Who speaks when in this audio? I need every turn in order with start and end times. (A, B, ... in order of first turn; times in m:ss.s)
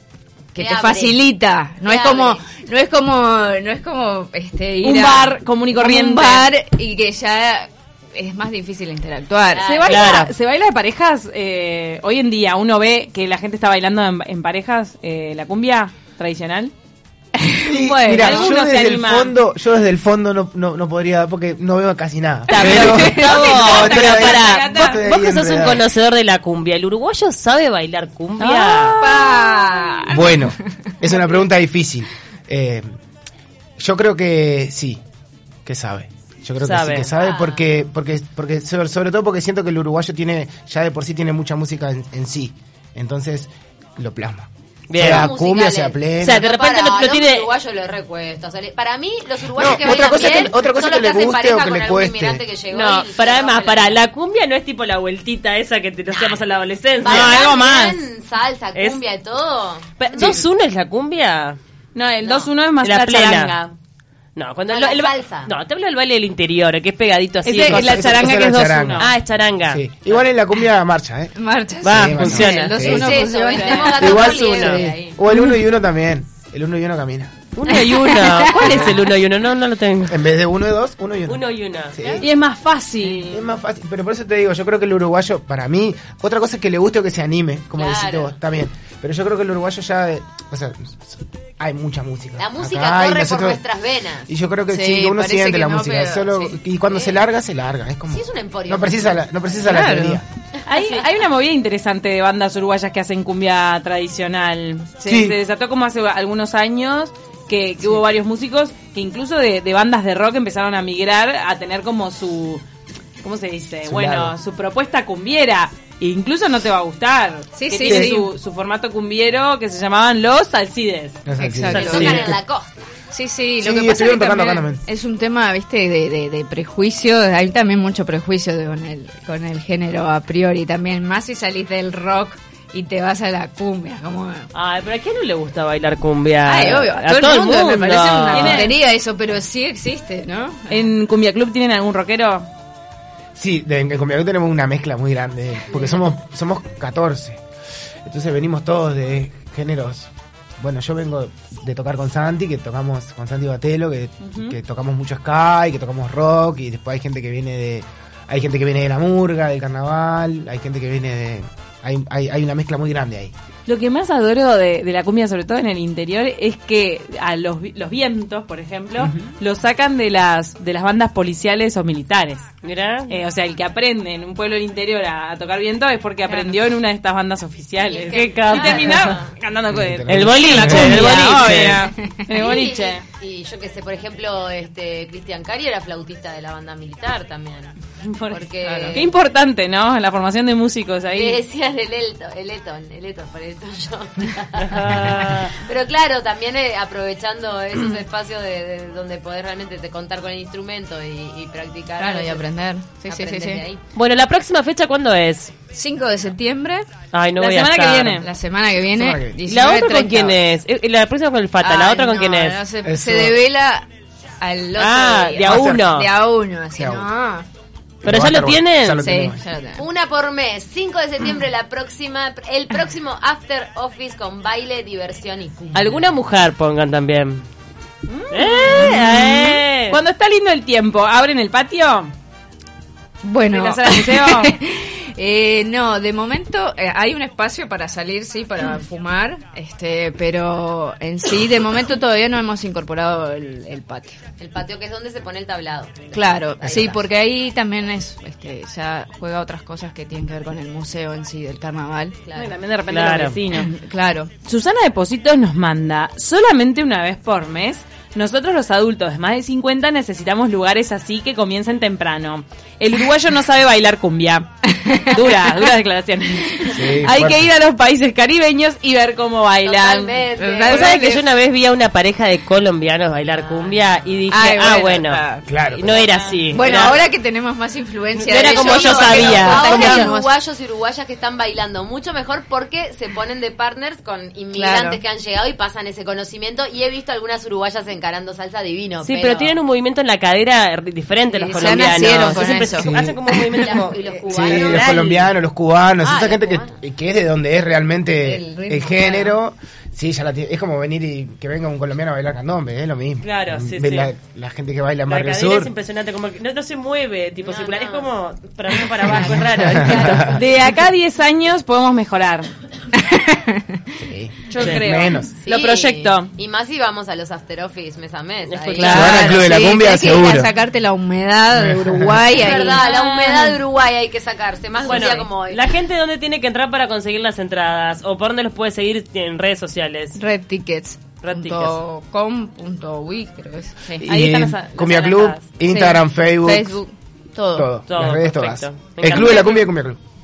0:00.5-0:10.2 A
0:00.6-0:01.2 B
0:01.8-0:02.5 B
0:04.8-0:06.5 C
0:09.5-0:10.2 B
0:09.6-0:16.7 C
0:09.8-0:10.3 D
0:17.4-0:18.5 A
0:17.6-0:25.8 E
0:17.8-0:19.3 C
0:22.5-0:29.0 D
0:22.6-0:25.0 C
0:22.7-0:23.5 A
0:28.4-0:30.0 C
0:29.0-0:30.5 A
0:30.1-0:32.9 E
0:33.8-0:35.0 E
0:35.6-0:46.4 E
0:36.6-0:37.1 D
0:37.1-0:37.6 B
0:44.9-0:45.3 D
0:45.1-0:54.0 B
0:46.2-0:47.5 D
0:49.6-0:52.4 E
0:52.7-0:57.4 D
0:57.0-1:00.4 B
0:57.0-0:58.0 C
0:58.7-0:59.0 D
1:00.0-1:01.6 D
1:01.9-1:03.7 C
1:02.2-1:02.5 B
1:02.8-1:03.6 D
1:04.4-1:08.2 D
1:04.7-1:05.5 B
1:07.4-1:09.1 C
1:07.6-1:09.1 E
1:09.0-1:10.2 D
1:09.7-1:11.3 E
1:11.4-1:14.9 A
1:11.8-1:13.1 D
1:11.9-1:13.1 E
1:12.9-1:15.2 B
1:13.9-1:17.4 E
1:14.2-1:14.8 D
1:17.6-1:20.2 D
1:17.7-1:18.9 A
1:20.1-1:22.2 E
1:21.3-1:22.2 D
1:22.2-1:23.4 C
1:23.2-1:33.6 E
1:27.8-1:28.4 B
1:32.4-1:34.3 B
1:34.3-1:40.2 E
1:34.7-1:36.6 A
1:36.8-1:37.2 B
1:38.1-1:39.6 B
1:39.6-1:40.2 A
1:40.6-1:52.6 C
1:40.7-1:41.0 B
1:45.0-1:45.4 E
1:53.2-2:01.2 C
1:53.8-1:54.3 E
1:57.5-1:58.3 A
1:57.8-1:58.1 E
2:01.2-2:02.3 E
2:01.4-2:02.3 A
2:01.7-2:02.3 D
2:01.7-2:02.9 B
2:03.1-2:14.5 A
2:03.6-2:04.8 E
2:14.5-2:18.7 D
2:16.4-2:20.9 A
2:18.3-2:18.7 C
2:20.7-2:22.5 C
2:23.4-2:27.4 E
2:28.0-2:43.3 E
2:34.2-2:34.6 C
2:43.6-2:52.5 C
2:52.6-2:53.2 D
2:53.1-3:03.0 C
2:56.3-2:56.5 B
2:57.8-2:59.3 B
2:58.1-2:59.2 D
2:59.7-3:01.0 E
3:00.1-3:01.8 D
3:02.3-3:07.7 B
3:08.0-3:11.4 C
3:08.3-3:09.1 B
3:08.6-3:09.0 A
3:11.1-3:22.4 B
3:14.6-3:15.5 D
3:22.0-3:23.6 A
3:23.0-3:23.8 B
3:23.9-3:25.5 D
3:25.7-3:26.8 A
3:27.1-3:28.2 D
3:27.4-3:28.3 C
3:28.2-3:30.4 A
3:28.9-3:29.4 E
3:29.5-3:32.6 D
3:31.6-3:33.9 A
3:32.8-3:33.4 E
3:34.4-3:37.4 A
3:34.8-3:36.1 D
3:35.4-3:35.8 E
3:36.8-3:37.1 E
3:38.0-3:39.4 E
3:38.0-3:39.0 D
3:39.0-3:39.8 A
3:39.8-3:46.0 B
3:45.7-3:47.4 D
3:48.0-3:52.1 C
3:48.3-3:50.0 D
3:53.2-4:04.2 A
3:53.5-3:54.5 C
4:04.4-4:07.0 B
4:06.1-4:12.2 A
4:06.6-4:06.9 E
4:12.2-4:12.5 B
4:12.3-4:13.7 C
4:12.9-4:13.4 D
4:13.5-4:14.3 A
4:14.4-4:31.2 C
4:26.7-4:27.5 E
4:29.6-4:31.0 B
4:30.3-4:31.1 A
4:30.7-4:37.0 D
4:33.3-4:34.1 B
4:34.3-4:35.5 A
4:35.5-4:35.9 E
4:35.9-4:36.4 C
4:36.5-4:40.3 A
4:38.2-4:40.1 D
4:38.3-4:49.6 B
4:44.5-4:45.0 A
4:49.0-4:55.3 D
4:51.3-4:53.8 A
4:51.6-4:51.9 B
4:52.8-4:53.2 E
4:53.5-4:55.0 B
4:54.3-5:05.7 E
4:56.0-4:56.7 B
4:58.2-4:59.4 A
5:03.2-5:04.1 D
5:05.1-5:10.4 D
5:07.4-5:08.1 B
5:09.1-5:09.4 B
5:09.5-5:10.4 E
5:10.2-5:12.5 C
5:13.0-5:13.6 A
5:13.9-5:15.3 E
5:14.5-5:16.3 C
5:14.6-5:14.8 D
5:15.4-5:19.1 B
5:18.4-5:19.6 D
5:18.8-5:20.5 E
5:18.8-5:23.6 A
5:21.5-5:22.3 E
5:22.3-5:25.6 B
5:24.8-5:30.2 D
5:30.2-5:34.0 A
5:31.2-5:31.8 D
5:34.0-5:36.8 E
5:34.0-5:35.4 C
5:35.6-5:37.7 A
5:37.5-5:40.0 E
5:37.9-5:39.7 D